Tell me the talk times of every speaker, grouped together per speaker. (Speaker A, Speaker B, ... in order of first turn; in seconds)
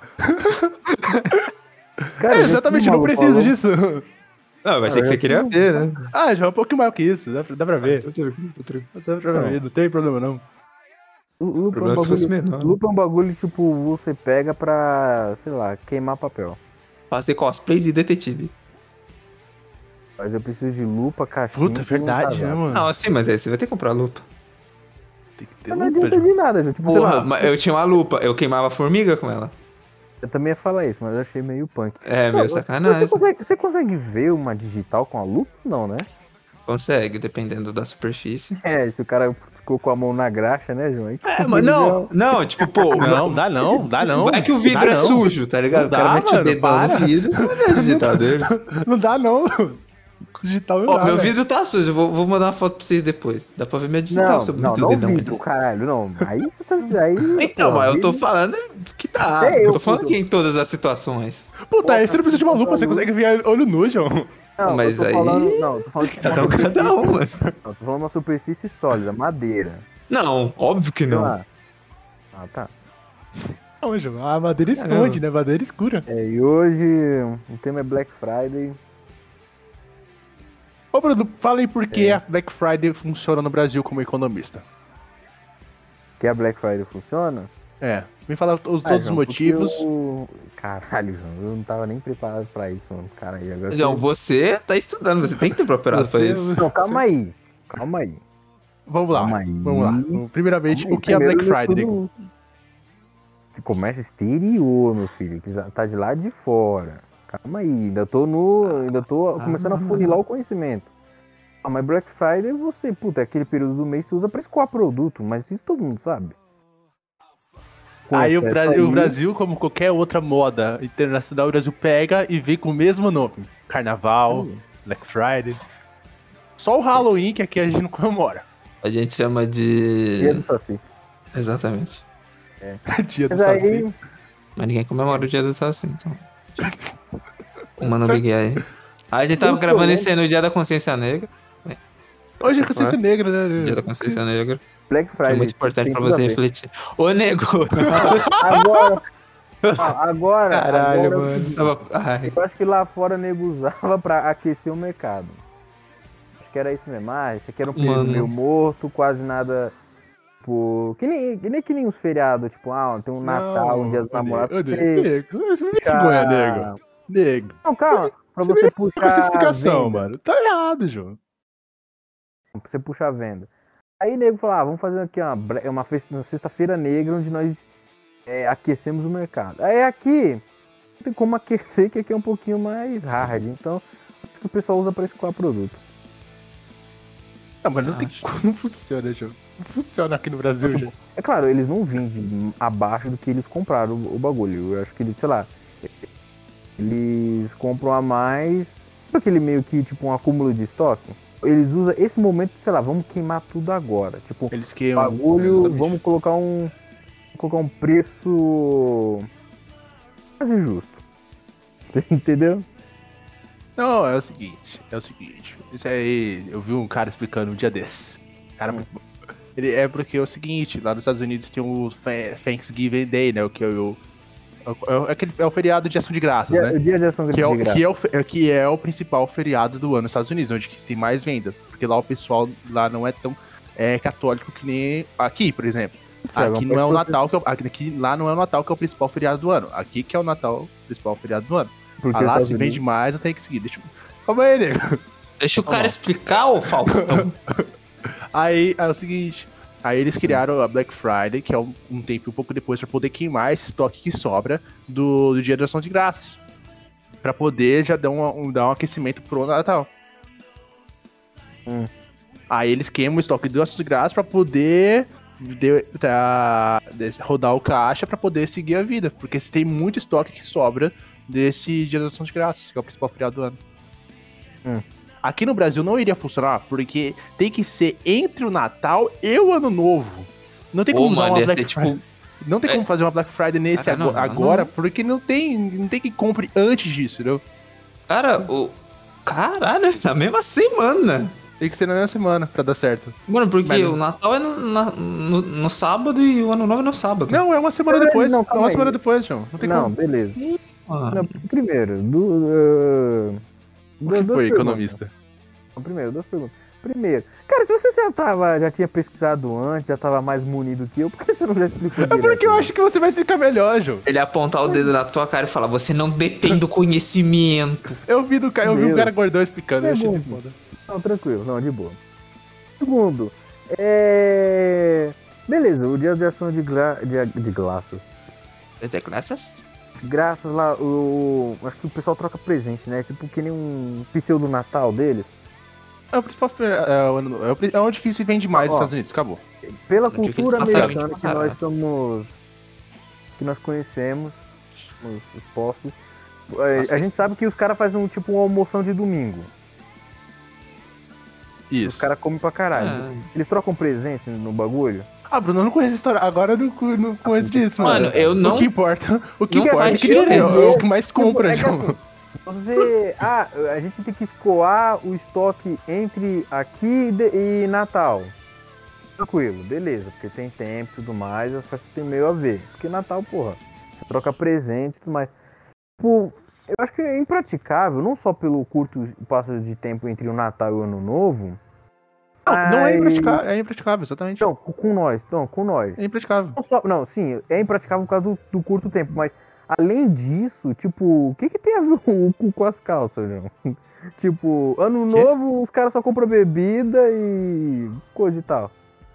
Speaker A: 0.2-0.7, 2.3-4.0, 6.1-8.1, 8.9-10.4, 21.5-22.9, 25.4-26.3, 43.0-49.8, 50.4-51.3, 61.6-64.3, 66.0-66.8, 73.8-76.0, 80.9-84.6, 87.8-89.8, 95.9-97.0, 98.9-102.0, 118.1-125.6, 126.6-128.4, 132.9-133.8, 136.6-136.9, 137.8-138.2, 142.4-144.2, 147.8-148.6, 163.2-171.2, 187.6-190.9, 204.5-206.0, 213.8-219.0, 219.6-224.0, 224.7-226.8, 227.3-245.0, 246.8-247.6, 248.3-256.4, 257.2-259.9, 262.5-273.6, 275.2-287.4, 291.6-293.9, 297.3-299.9, 304.1-305.1, 312.0-314.1, 318.1-320.6, 336.1-339.4, 340.7-341.0, 351.7-352.0, 355.3-362.0, 382.5-384.5, 386.0-386.6
Speaker B: 0.9-1.4, 4.6-6.1, 7.8-8.9, 11.7-12.8, 17.1-18.5, 22.7-24.2, 26.8-29.5, 32.0-33.2, 36.7-38.6, 41.2-43.4, 44.0-48.5, 50.9-55.4, 57.4-61.5, 64.6-67.3, 70.1-71.3, 74.7-75.2, 93.7-96.6, 108.6-110.2, 128.8-130.4, 131.3-132.0, 134.6-136.7, 137.8-141.8, 142.4-143.0, 143.6-144.6, 145.2-148.4, 150.5-152.4, 157.7-158.3, 187.8-188.2, 245.4-247.3, 280.9-282.0, 283.8-284.7, 288.1-291.4, 293.3-297.4, 300.4-301.4, 314.1-318.0, 328.8-329.6, 340.1-341.6, 346.8-347.2, 352.7-353.3, 357.8-358.7, 359.5-360.8
Speaker C: 2.2-3.5, 4.9-5.7, 11.4-16.6, 20.2-22.6, 25.7-27.5, 30.2-36.1, 38.6-43.3, 54.1-58.2, 59.4-60.2, 61.8-63.1, 64.6-67.0, 67.6-69.8, 71.1-71.4, 72.3-72.7, 76.1-78.8, 81.9-82.2, 86.2-87.5, 88.8-94.0, 96.6-98.2, 99.1-102.1, 103.5-110.9, 111.6-116.3, 118.1-119.2, 124.3-124.6, 130.2-130.8, 132.6-133.9, 139.4-140.1, 144.9-146.4, 148.0-149.0, 149.8-151.7, 152.2-155.4, 156.4-159.8, 160.4-165.1, 165.8-166.8, 167.6-170.1, 172.5-173.5, 174.0-177.6, 178.2-180.4, 181.0-185.8, 190.6-195.9, 196.8-206.7, 207.3-209.3, 210.4-211.0, 211.9-212.7, 226.5-227.8, 236.3-237.2, 242.0-242.8, 245.7-245.9, 297.9-299.0, 299.6-300.4, 301.1-303.4, 304.0-305.0, 305.8-312.7, 318.6-319.1, 319.8-322.0, 322.8-328.0, 330.0-335.3, 338.6-338.9, 339.8-342.3, 343.4-344.4, 345.0-345.9, 346.5-349.5, 351.8-355.1, 357.2-358.6, 359.8-368.3, 369.2-375.3, 376.0-381.6, 382.4-383.4, 384.4-386.0, 386.6-398.7